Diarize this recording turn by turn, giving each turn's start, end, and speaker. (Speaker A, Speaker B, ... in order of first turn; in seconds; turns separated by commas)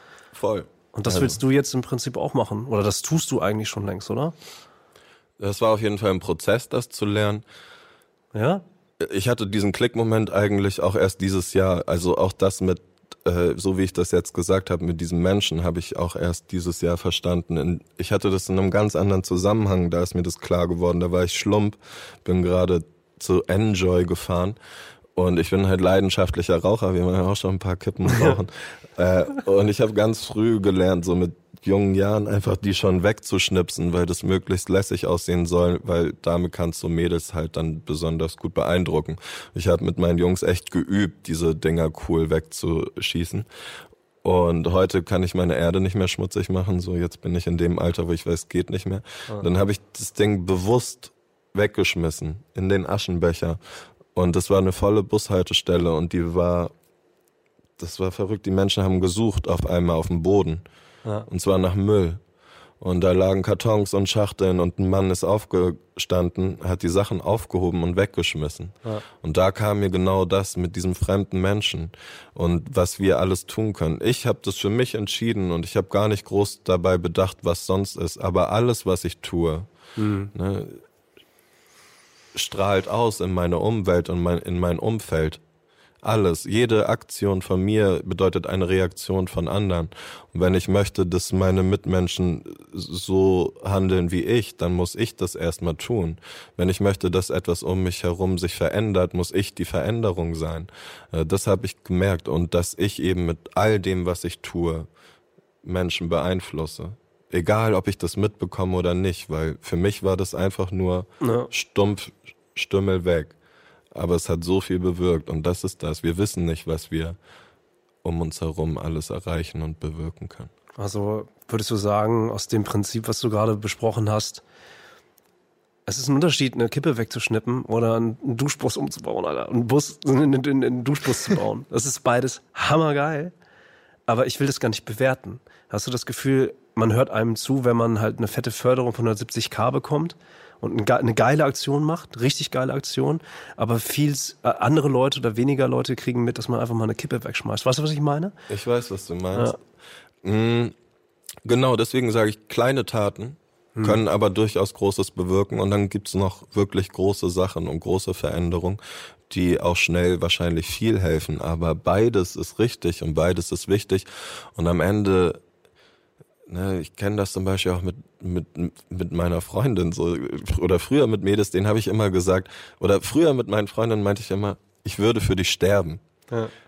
Speaker A: 0.3-1.4, Speaker B: 0.9-4.3, Speaker A: 5.4-7.4, Speaker B: 8.3-8.6, Speaker A: 9.0-24.6, Speaker A: 25.1-43.5, Speaker B: 28.1-28.4, Speaker A: 44.2-53.6, Speaker A: 54.1-56.7, Speaker A: 57.8-60.6, Speaker A: 61.3-62.2, Speaker A: 62.8-79.7, Speaker B: 80.0-80.3, Speaker A: 80.3-80.8, Speaker A: 82.3-85.4, Speaker A: 86.0-104.9, Speaker A: 105.6-113.4, Speaker B: 111.2-111.5, Speaker A: 113.9-117.2, Speaker A: 118.0-120.5, Speaker B: 120.8-124.4, Speaker B: 125.9-133.3, Speaker B: 134.1-148.3, Speaker A: 148.5-149.6, Speaker A: 150.2-150.8, Speaker A: 151.4-165.4, Speaker A: 166.5-176.0